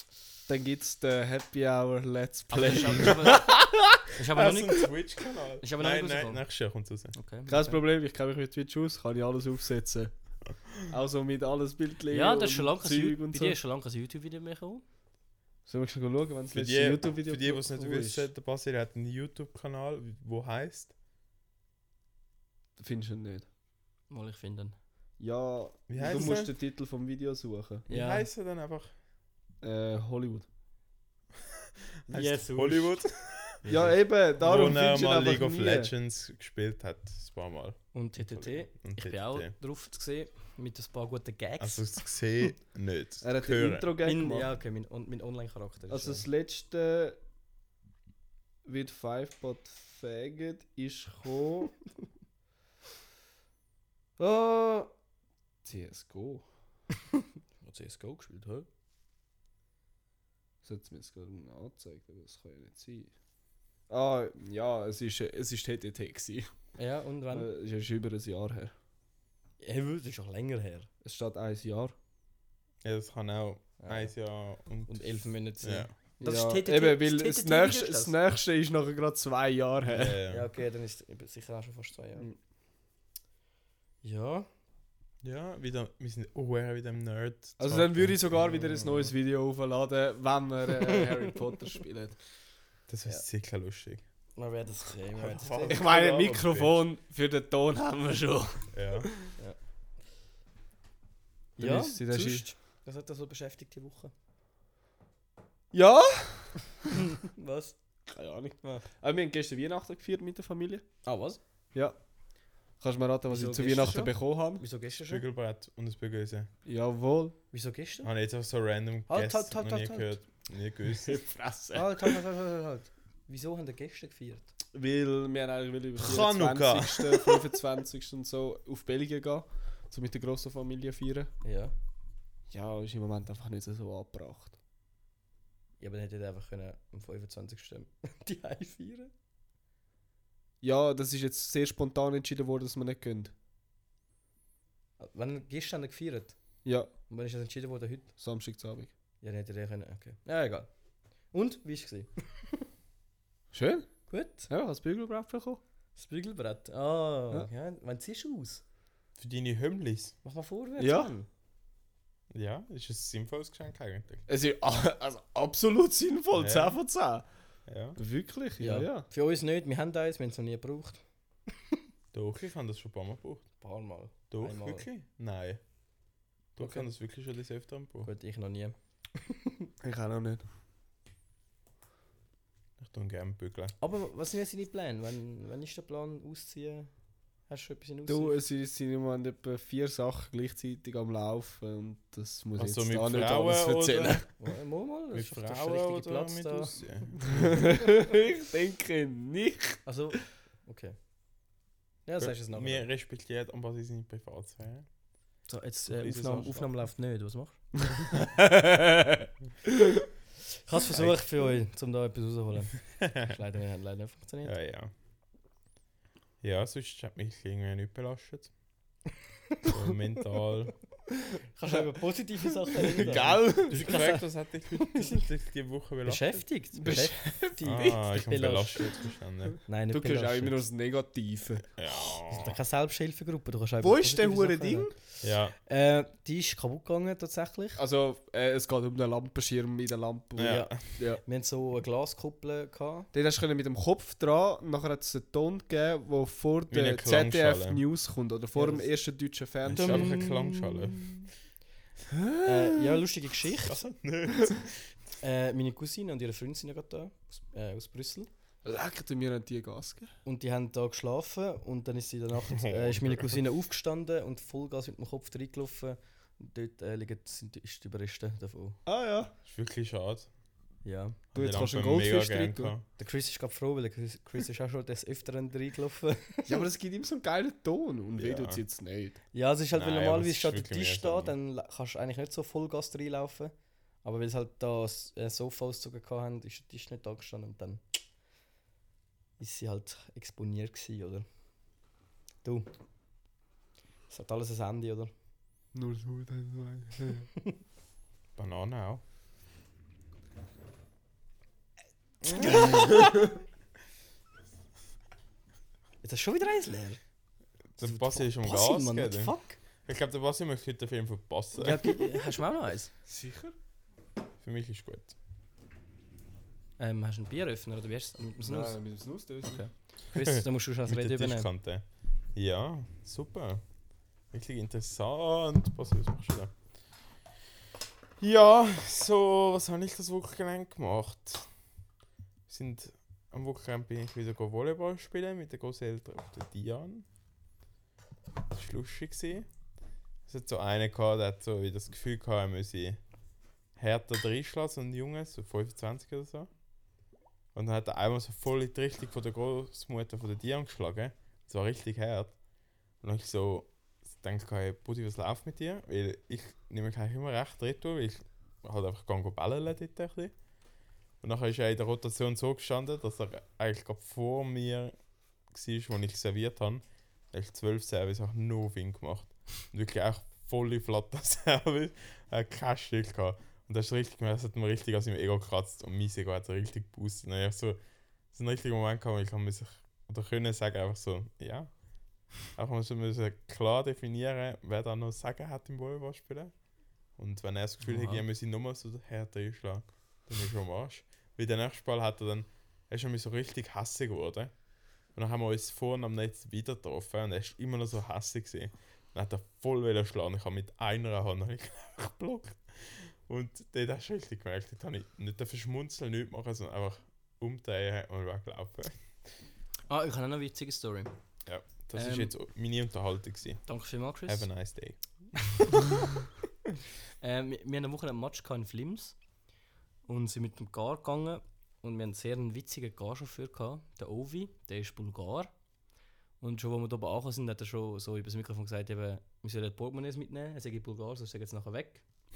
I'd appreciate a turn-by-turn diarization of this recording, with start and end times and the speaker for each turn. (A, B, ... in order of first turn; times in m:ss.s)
0:00.5-0:04.0 A
0:02.5-0:03.6 B
0:02.5-0:03.5 C
0:04.1-0:05.0 B
0:04.3-0:07.2 C
0:05.6-0:06.5 B
0:07.1-0:07.8 B
0:07.5-0:13.6 A
0:12.1-0:14.8 B
0:15.7-0:18.3 A
0:16.5-0:20.9 C
0:22.8-0:23.5 A
0:24.1-0:24.8 B
0:25.2-0:27.9 A
0:25.9-0:26.5 C
0:27.9-0:28.9 C
0:27.9-0:28.3 B
0:29.6-0:30.5 A
0:32.1-0:33.6 C
0:32.1-0:33.0 B
0:33.6-0:34.0 B
0:33.7-0:35.9 A
0:34.4-0:39.5 C
0:37.9-0:42.0 B
0:41.6-0:43.9 C
0:43.2-0:44.5 A
0:44.0-0:46.3 B
0:45.9-0:47.2 A
0:48.6-0:51.8 A
0:54.2-0:54.9 A
0:55.6-0:56.5 A
0:57.6-0:58.7 B
1:00.6-1:03.1 A
1:03.9-1:06.5 A
1:06.8-1:07.5 B
1:07.3-1:08.7 A
1:09.6-1:10.9 B
1:11.0-1:12.0 A
1:12.8-1:15.9 C
1:13.8-1:14.2 B
1:14.9-1:18.2 B
1:16.2-1:20.2 A
1:19.9-1:20.5 C
1:20.3-1:22.3 B
1:24.0-1:24.5 B
1:25.2-1:28.4 C
1:27.6-1:32.2 A
1:28.6-1:28.9 B
1:32.9-1:34.0 C
1:34.4-1:35.8 B
1:35.2-1:36.8 C
1:35.7-1:39.1 A
1:38.7-1:39.1 C
1:41.6-1:42.5 A
1:41.6-1:44.1 B
1:45.7-1:46.7 A
1:47.2-1:47.8 B
1:48.1-1:50.8 A
1:51.0-1:51.4 B
1:52.8-1:54.6 A
1:53.3-1:55.2 B
1:55.1-1:56.5 C
1:56.7-1:57.4 A
1:57.5-1:58.1 B
1:58.0-2:01.2 C
1:59.1-2:00.2 B
2:01.0-2:02.2 A
2:01.7-2:04.5 B
2:04.7-2:11.3 A
2:06.0-2:07.4 C
2:11.4-2:11.7 B
2:12.5-2:14.6 A
2:15.8-2:19.1 B
2:20.6-2:23.3 A
2:25.0-2:26.4 B
2:26.6-2:26.9 A
2:27.1-2:28.1 B
2:28.2-2:28.9 A
2:29.2-2:30.7 B
2:31.3-2:32.6 B
2:33.5-2:33.9 A
2:34.1-2:34.5 B
2:34.5-2:35.6 A
2:36.0-2:38.6 B
2:39.2-2:40.2 C
2:40.2-2:41.3 B
2:40.8-2:41.1 A
2:42.3-2:44.3 C
2:44.3-2:47.3 A
2:46.4-2:46.8 C
2:47.7-2:48.0 C
2:48.0-2:49.1 A
2:48.6-2:51.0 B
2:52.1-2:53.5 C
2:53.6-2:54.9 B
2:54.3-2:55.6 C
2:56.6-2:56.9 B
2:56.6-2:58.1 C
2:58.0-2:59.4 B
2:59.8-3:00.4 A
3:02.8-3:03.8 C
3:03.8-3:06.9 B
3:07.5-3:08.4 B
3:08.1-3:14.3 A
3:12.6-3:14.3 C
3:14.4-3:16.7 B
3:15.1-3:17.7 C
3:17.3-3:19.8 A
3:19.8-3:21.0 B
3:22.0-3:22.9 B
3:22.2-3:24.9 C
3:25.5-3:27.6 B
3:26.0-3:26.7 C
3:28.2-3:29.3 A
3:30.6-3:34.5 B
3:30.9-3:31.2 C
3:33.0-3:33.3 C
3:34.4-3:34.9 C
3:36.4-3:38.5 C
3:39.6-3:40.8 C
3:41.6-3:45.2 B
3:42.7-3:44.0 A
3:43.0-3:46.4 C
3:46.0-3:49.0 B
3:46.8-3:48.0 A
3:47.6-3:49.6 C
3:49.7-3:50.6 B
3:49.9-3:51.7 A
3:51.8-3:52.6 C
3:52.3-3:55.0 B
3:53.8-3:55.0 A
3:55.2-3:55.6 C
3:55.7-3:57.8 B
3:57.8-4:01.2 A
4:00.4-4:00.8 C
4:00.4-4:03.1 B
4:03.1-4:10.2 A
4:06.7-4:07.8 C
4:08.6-4:08.9 B
4:09.7-4:11.2 C
4:09.7-4:11.3 B
4:12.1-4:13.0 A
4:12.4-4:13.8 B
4:13.6-4:14.9 C
4:15.2-4:18.3 B
4:18.6-4:20.1 A
4:20.2-4:28.8 B
4:22.4-4:23.4 C
4:28.9-4:29.3 A
4:29.5-4:30.3 C
4:30.8-4:31.2 B
4:31.3-4:32.8 A
4:31.3-4:32.8 C
4:33.0-4:36.6 B
4:36.5-4:39.2 A
4:38.2-4:38.6 C
4:39.3-4:48.0 B
4:39.7-4:41.3 C
4:49.4-4:51.2 B
4:52.4-4:52.7 B
4:54.1-4:55.1 B
4:55.7-4:57.3 A
4:58.4-4:59.0 C
5:02.2-5:03.0 B
5:02.7-5:03.0 A
5:06.0-5:07.0 B
5:07.8-5:12.0 C
5:07.8-5:09.6 B
5:11.6-5:12.9 B
5:13.1-5:13.6 A
5:14.4-5:15.1 C
5:16.8-5:18.8 B
5:18.4-5:19.7 A
5:19.5-5:21.5 B
5:20.2-5:23.6 C
5:24.3-5:26.5 C
5:28.2-5:31.5 C
5:32.5-5:37.1 C
5:38.5-5:39.5 C
5:40.3-5:43.0 C
5:43.8-5:46.5 C
5:47.5-5:52.4 C
5:53.0-6:00.4 C
6:01.2-6:04.9 C
6:05.5-6:17.8 C
6:18.3-6:21.8 C
6:22.3-6:26.5 C
6:27.2-6:34.6 C
6:27.8-6:28.2 B
6:35.1-6:49.1 C
6:49.9-6:51.1 B
6:51.5-6:53.7 C
6:52.0-6:52.3 B
6:53.7-6:54.5 B
6:54.2-6:55.9 C
6:57.2-6:59.2 B
7:00.1-7:05.5 B
7:06.4-7:12.0 B